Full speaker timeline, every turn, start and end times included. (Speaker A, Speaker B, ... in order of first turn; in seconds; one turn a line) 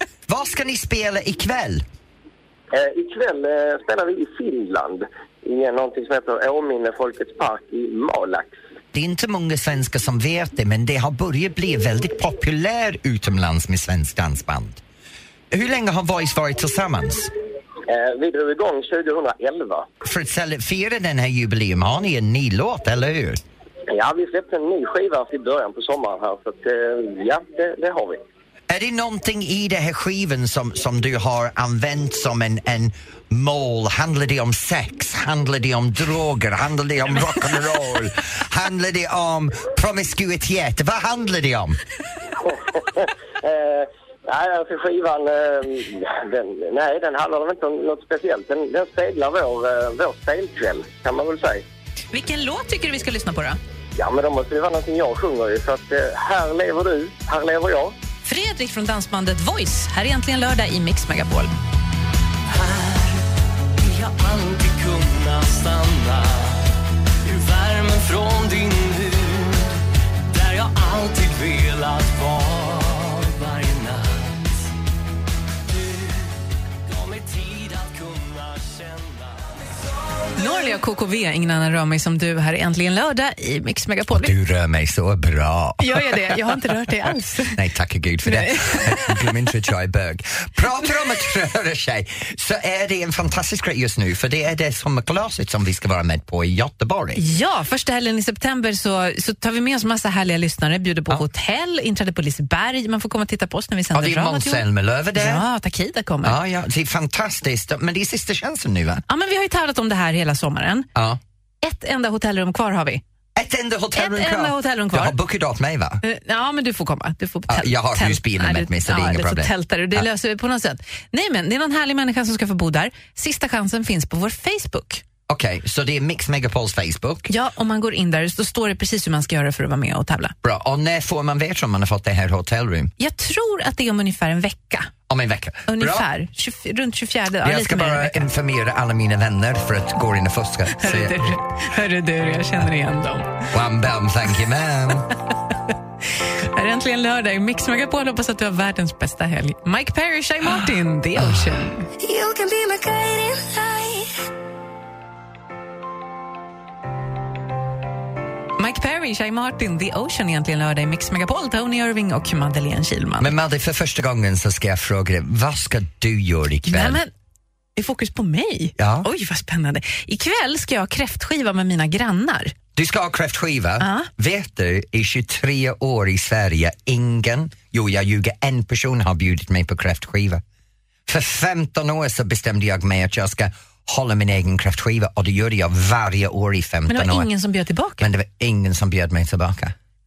Speaker A: 0.3-1.8
Speaker B: 2.7-8.6
Speaker A: 8.9-14.8
Speaker A: 15.5-17.3
Speaker B: 17.9-19.9
Speaker A: 20.0-23.4
Speaker B: 23.9-28.2
Speaker A: 28.7-41.8
Speaker B: 42.4-51.6
Speaker C: 52.1-53.6
Speaker B: 54.0-57.9
Speaker C: 58.2-61.5
Speaker D: 62.5-63.2
Speaker D: 63.8-66.7
Speaker D: 67.2-74.7
Speaker D: 75.7-76.3
Speaker D: 76.9-79.7
Speaker C: 80.4-84.3
Speaker A: 84.1-86.3
Speaker C: 85.8-87.6
Speaker A: 87.5-97.2
Speaker C: 88.2-89.3
Speaker C: 97.2-106.4
Speaker A: 103.9-105.5
Speaker A: 106.2-109.0
Speaker C: 109.1-110.9
Speaker A: 111.0-111.2
Speaker C: 111.6-113.0
Speaker A: 113.4-116.0
Speaker C: 114.0-115.2
Speaker C: 116.0-125.0
Speaker A: 117.5-120.0
Speaker A: 125.3-127.3
Speaker C: 127.3-130.3
Speaker A: 130.4-132.9
Speaker C: 133.0-134.9
Speaker A: 135.1-136.1
Speaker C: 135.7-138.3
Speaker A: 137.4-141.4
Speaker C: 140.8-143.4
Speaker A: 143.5-145.1
Speaker C: 146.4-151.9
Speaker E: 152.0-154.1
Speaker C: 158.6-163.3
Speaker A: 163.2-167.0
Speaker C: 166.7-167.1
Speaker C: 167.8-172.6
Speaker A: 168.8-169.1
Speaker A: 172.8-180.4
Speaker C: 173.8-174.1
Speaker A: 181.1-187.3
Speaker C: 186.9-188.1
Speaker A: 188.0-189.8